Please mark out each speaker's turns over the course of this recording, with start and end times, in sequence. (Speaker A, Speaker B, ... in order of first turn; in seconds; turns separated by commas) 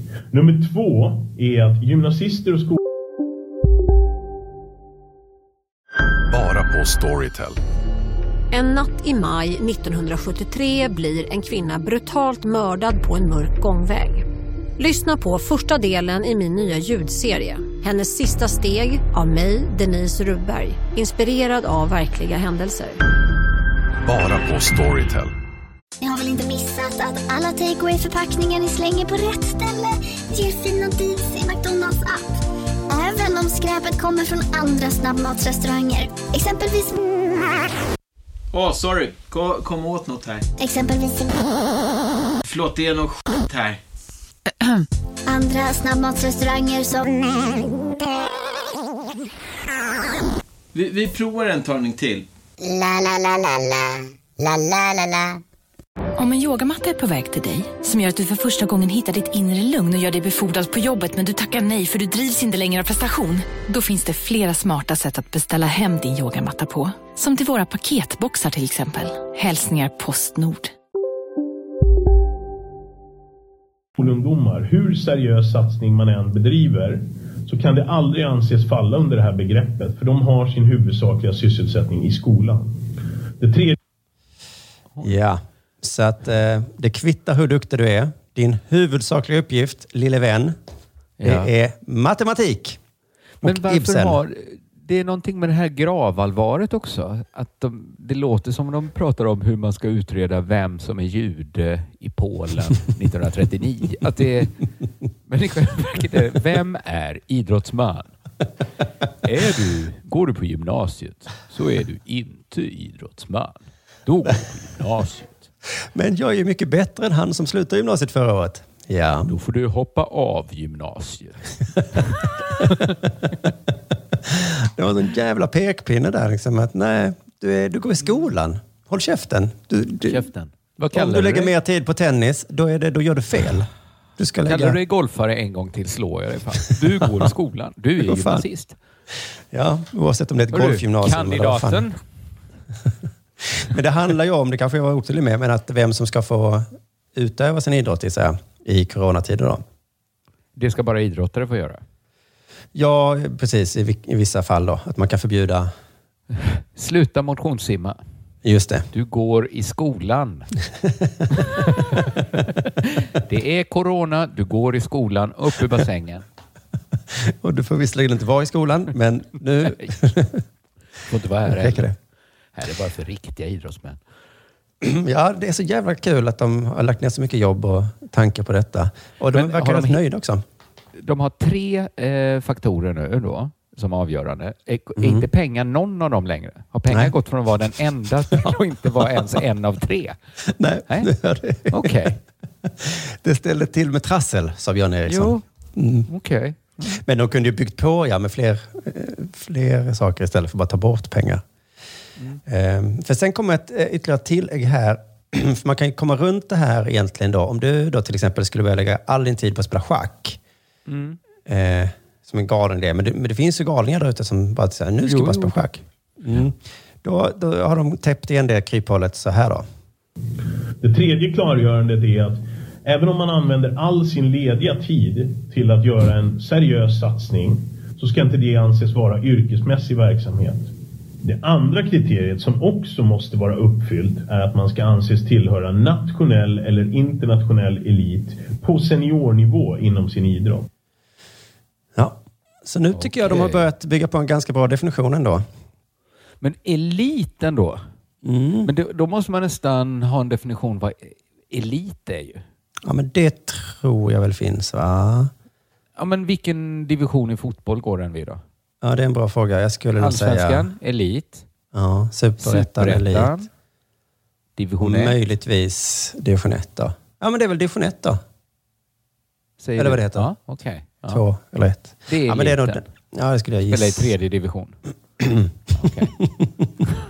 Speaker A: 0.3-2.8, Speaker B: 6.3-7.6, Speaker C: 8.5-14.2, Speaker C: 14.8-23.0, Speaker B: 24.1-25.3, Speaker D: 26.0-32.3, Speaker D: 32.9-37.0, Speaker E: 38.5-40.5, Speaker D: 40.6-41.5, Speaker E: 42.4-43.8, Speaker D: 45.3-47.6, Speaker E: 50.7-52.2, Speaker F: 56.2-70.7, Speaker A: 74.0-82.8, Speaker A: 83.4-83.8, Speaker G: 85.0-90.6, Speaker H: 91.2-91.5, Speaker G: 91.2-92.8, Speaker H: 93.4-104.6, Speaker G: 93.4-94.2, Speaker H: 105.3-108.1, Speaker H: 109.2-115.5, Speaker G: 115.9-119.3, Speaker H: 119.3-123.0, Speaker G: 124.2-130.3, Speaker H: 130.1-131.5, Speaker G: 130.9-134.8, Speaker H: 134.5-138.8, Speaker G: 138.0-138.4, Speaker G: 139.5-141.8, Speaker H: 140.5-142.0, Speaker G: 143.5-149.6, Speaker H: 150.6-151.8, Speaker G: 152.7-155.7, Speaker H: 156.3-158.0, Speaker G: 158.4-158.9, Speaker H: 158.9-160.6, Speaker G: 160.8-161.6, Speaker H: 161.4-162.2, Speaker H: 162.8-166.2, Speaker G: 167.1-170.4, Speaker H: 169.7-170.0, Speaker H: 171.1-171.9, Speaker G: 171.4-171.9, Speaker H: 172.6-174.0, Speaker G: 174.8-180.4, Speaker H: 179.3-180.0, Speaker H: 180.9-190.2, Speaker G: 185.0-185.3, Speaker G: 188.3-189.3, Speaker G: 190.4-192.1, Speaker H: 191.7-192.2, Speaker G: 192.6-196.1, Speaker H: 195.1-195.4, Speaker H: 196.1-197.0, Speaker G: 196.9-201.4, Speaker G: 202.5-210.4, Speaker H: 210.9-211.2, Speaker G: 211.5-219.7, Speaker H: 215.1-215.8, Speaker A: 220.8-230.7, Speaker A: 231.2-240.7, Speaker G: 241.9-245.4, Speaker H: 242.9-243.7, Speaker H: 246.4-247.8, Speaker G: 248.2-248.7, Speaker H: 248.7-252.4, Speaker G: 252.8-255.3, Speaker H: 256.0-258.4, Speaker G: 258.8-260.7, Speaker H: 260.0-261.5, Speaker G: 261.7-263.4, Speaker H: 262.4-263.5, Speaker H: 264.6-265.2, Speaker G: 264.8-268.2, Speaker H: 269.6-271.2, Speaker G: 269.8-270.3, Speaker G: 271.1-274.1, Speaker H: 272.1-272.9, Speaker H: 273.7-274.8, Speaker G: 275.2-276.8, Speaker H: 275.7-276.1